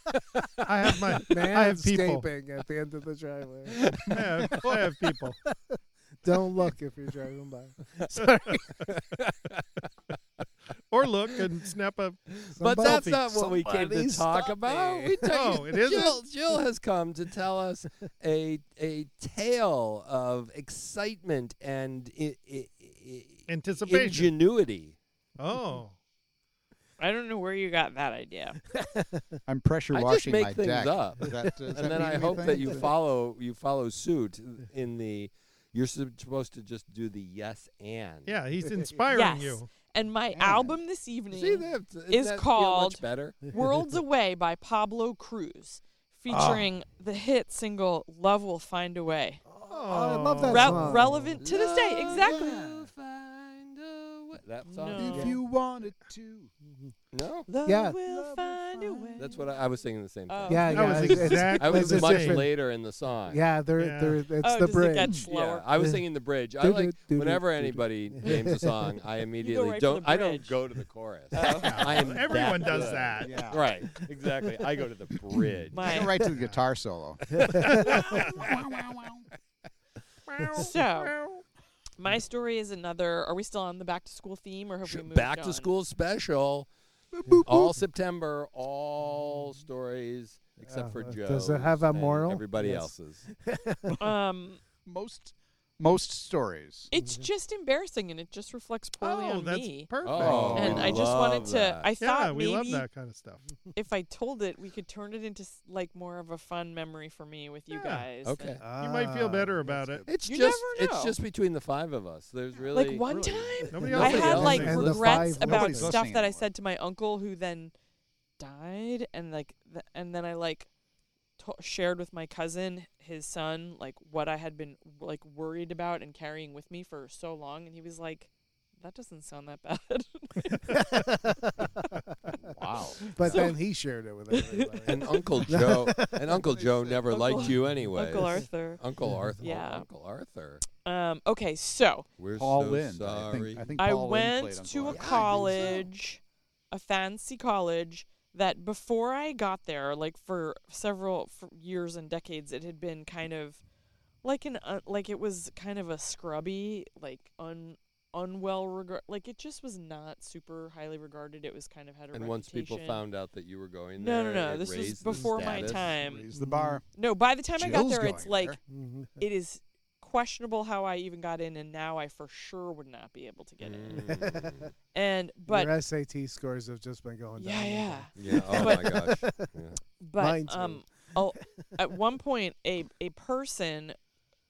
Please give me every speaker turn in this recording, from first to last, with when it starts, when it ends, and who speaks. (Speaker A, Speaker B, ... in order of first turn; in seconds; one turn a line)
Speaker A: 0.7-2.2
Speaker B: 1.2-4.9
Speaker C: 3.7-4.0
Speaker A: 4.0-5.4
Speaker B: 5.5-9.0
Speaker C: 8.8-9.9
Speaker A: 10.9-12.3
Speaker B: 12.5-15.2
Speaker C: 12.5-24.9
Speaker A: 15.2-16.2
Speaker A: 23.5-24.3
Speaker A: 25.4-25.9
Speaker D: 27.0-28.6
Speaker B: 28.7-29.3
Speaker E: 29.4-32.9
Speaker C: 29.9-38.3
Speaker B: 31.3-32.8
Speaker A: 38.2-39.6
Speaker B: 38.6-39.0
Speaker D: 39.1-49.4
Speaker B: 40.3-40.8
Speaker C: 41.3-43.4
Speaker A: 46.3-46.7
Speaker B: 49.5-51.4
Speaker A: 49.6-51.0
Speaker D: 50.4-52.6
Speaker C: 51.4-55.3
Speaker E: 52.2-52.9
Speaker D: 54.7-55.4
Speaker E: 54.9-56.5
Speaker B: 55.1-55.4
Speaker C: 57.1-57.5
Speaker D: 57.5-59.4
Speaker B: 57.6-59.3
Speaker C: 59.2-63.4
Speaker D: 60.3-61.4
Speaker B: 60.5-62.6
Speaker A: 60.7-62.4
Speaker B: 63.2-65.2
Speaker A: 63.8-64.2
Speaker D: 64.4-65.7
Speaker E: 65.0-65.3
Speaker C: 65.2-76.1
Speaker B: 65.8-66.0
Speaker B: 66.5-68.7
Speaker D: 69.4-70.6
Speaker D: 71.3-72.0
Speaker A: 71.5-73.4
Speaker E: 72.7-73.7
Speaker D: 75.7-76.2
Speaker E: 75.8-77.4
Speaker A: 76.3-76.6
Speaker C: 77.3-78.8
Speaker B: 77.4-78.0
Speaker A: 77.6-78.4
Speaker E: 78.1-79.2
Speaker A: 80.3-81.4
Speaker B: 80.4-80.7
Speaker D: 80.5-81.1
Speaker D: 82.0-85.7
Speaker C: 84.8-86.7
Speaker E: 87.1-87.7
Speaker C: 87.4-93.2
Speaker B: 90.6-94.0
Speaker D: 94.0-94.6
Speaker E: 94.8-96.9
Speaker D: 96.9-99.9
Speaker B: 96.9-97.3
Speaker A: 99.0-101.0
Speaker C: 100.0-101.9
Speaker E: 100.2-101.0
Speaker B: 100.2-100.5
Speaker D: 100.5-102.8
Speaker A: 102.0-103.5
Speaker D: 103.7-108.6
Speaker A: 107.7-108.1
Speaker C: 108.2-108.6
Speaker B: 108.6-109.9
Speaker A: 108.7-110.0
Speaker C: 110.1-113.1
Speaker D: 110.2-111.2
Speaker E: 112.6-114.6
Speaker D: 112.7-117.7
Speaker A: 113.7-114.9
Speaker B: 113.7-116.0
Speaker C: 113.8-115.5
Speaker E: 115.2-116.5
Speaker D: 118.4-120.7
Speaker D: 121.4-130.8
Speaker B: 130.7-131.7
Speaker E: 132.5-133.0
Speaker D: 133.0-133.6
Speaker B: 133.0-136.4
Speaker C: 133.2-133.5
Speaker D: 134.3-135.1
Speaker C: 134.8-140.6
Speaker E: 136.4-137.5
Speaker D: 137.2-138.8
Speaker D: 139.4-139.9
Speaker D: 140.8-142.1
Speaker C: 142.2-143.7
Speaker E: 142.3-145.8
Speaker D: 143.8-153.6
Speaker C: 144.8-145.8
Speaker D: 154.2-163.0
Speaker C: 162.1-165.9
Speaker D: 164.0-166.3
Speaker E: 165.7-166.8
Speaker B: 166.3-166.8
Speaker D: 166.9-168.6
Speaker E: 167.5-168.6
Speaker B: 168.7-169.2
Speaker D: 169.2-174.1
Speaker C: 173.6-174.7
Speaker B: 174.0-174.7
Speaker D: 174.9-175.7
Speaker B: 175.4-179.4
Speaker D: 177.4-178.9
Speaker C: 178.1-179.8
Speaker D: 180.0-184.0
Speaker B: 180.2-181.2